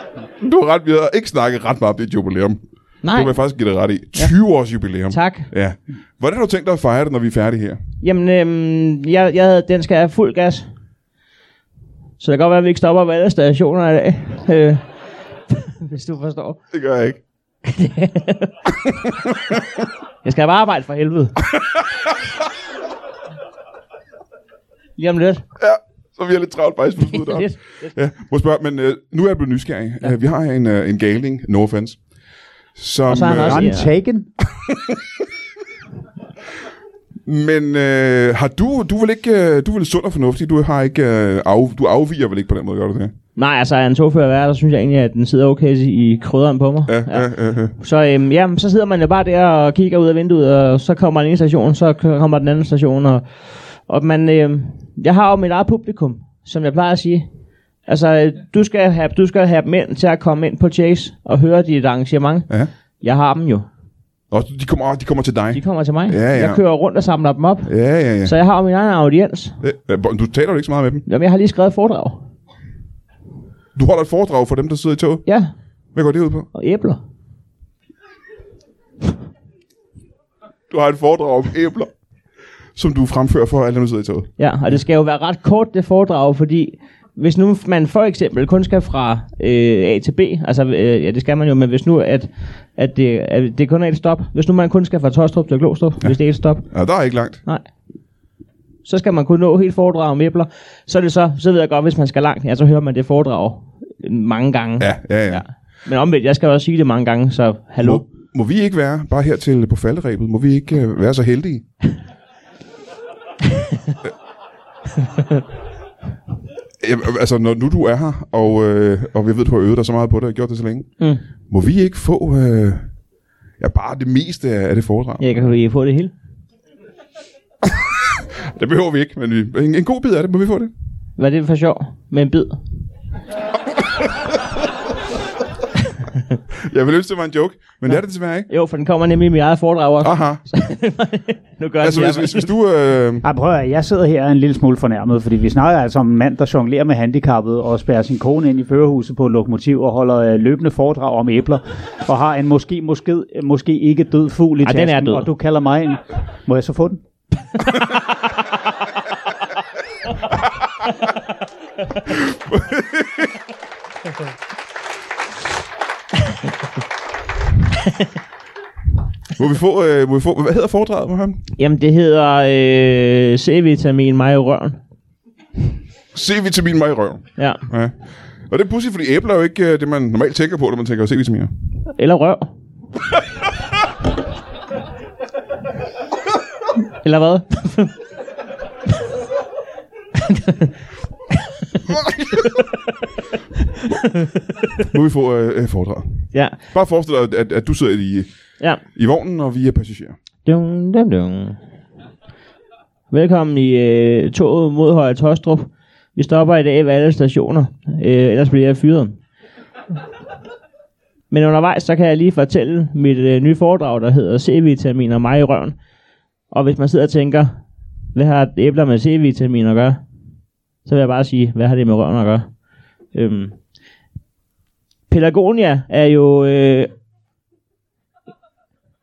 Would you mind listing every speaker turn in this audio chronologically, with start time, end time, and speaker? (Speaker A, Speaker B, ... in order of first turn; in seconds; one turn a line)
Speaker A: 0.4-7.8
Speaker B: 3.0-3.3
Speaker B: 5.1-5.5
Speaker B: 8.0-10.7
Speaker B: 12.2-14.9
Speaker B: 15.5-16.6
Speaker A: 16.7-17.2
Speaker B: 17.6-18.5
Speaker B: 20.2-21.3
Speaker A: 21.5-22.1
Speaker B: 25.0-25.4
Speaker A: 25.6-32.0
Speaker B: 27.1-27.9
Speaker A: 32.8-33.7
Speaker B: 33.1-33.9
Speaker C: 33.1-34.3
Speaker A: 34.6-35.0
Speaker A: 37.2-43.1
Speaker B: 43.4-57.3
Speaker A: 46.9-47.8
Speaker B: 57.9-62.5
Speaker B: 63.0-63.7
Speaker A: 64.3-66.6
Speaker B: 65.5-69.6
Speaker A: 67.7-68.3
Speaker A: 69.6-71.0
Speaker B: 71.0-72.2
Speaker A: 73.7-75.2
Speaker B: 75.2-75.5
Speaker A: 75.9-76.5
Speaker B: 76.5-77.0
Speaker A: 80.7-81.9
Speaker A: 82.8-84.3
Speaker B: 84.4-96.7
Speaker A: 96.0-97.4
Speaker B: 98.8-108.1
Speaker A: 104.8-105.4
Speaker A: 107.8-111.6
Speaker A: 116.8-120.9
Speaker A: 121.5-122.9
Speaker A: 123.6-125.2
Speaker B: 125.2-126.1
Speaker A: 128.5-130.7
Speaker B: 131.2-132.6
Speaker A: 136.7-138.5
Speaker B: 137.9-142.5
Speaker A: 140.0-140.4
Speaker A: 141.8-143.2
Speaker C: 143.2-157.0
Speaker B: 154.6-155.3
Speaker A: 162.1-163.3
Speaker A: 169.4-171.4
Speaker B: 171.6-174.8
Speaker A: 176.1-181.5
Speaker B: 177.4-177.6
Speaker B: 181.9-182.5
Speaker B: 187.0-187.9
Speaker A: 194.9-198.3
Speaker B: 196.3-196.6
Speaker A: 198.9-200.2
Speaker B: 200.4-201.6
Speaker B: 203.1-209.2
Speaker B: 211.3-215.8
Speaker B: 216.5-217.5
Speaker B: 218.1-220.0
Speaker B: 220.8-222.5
Speaker B: 223.1-223.6
Speaker B: 225.1-226.9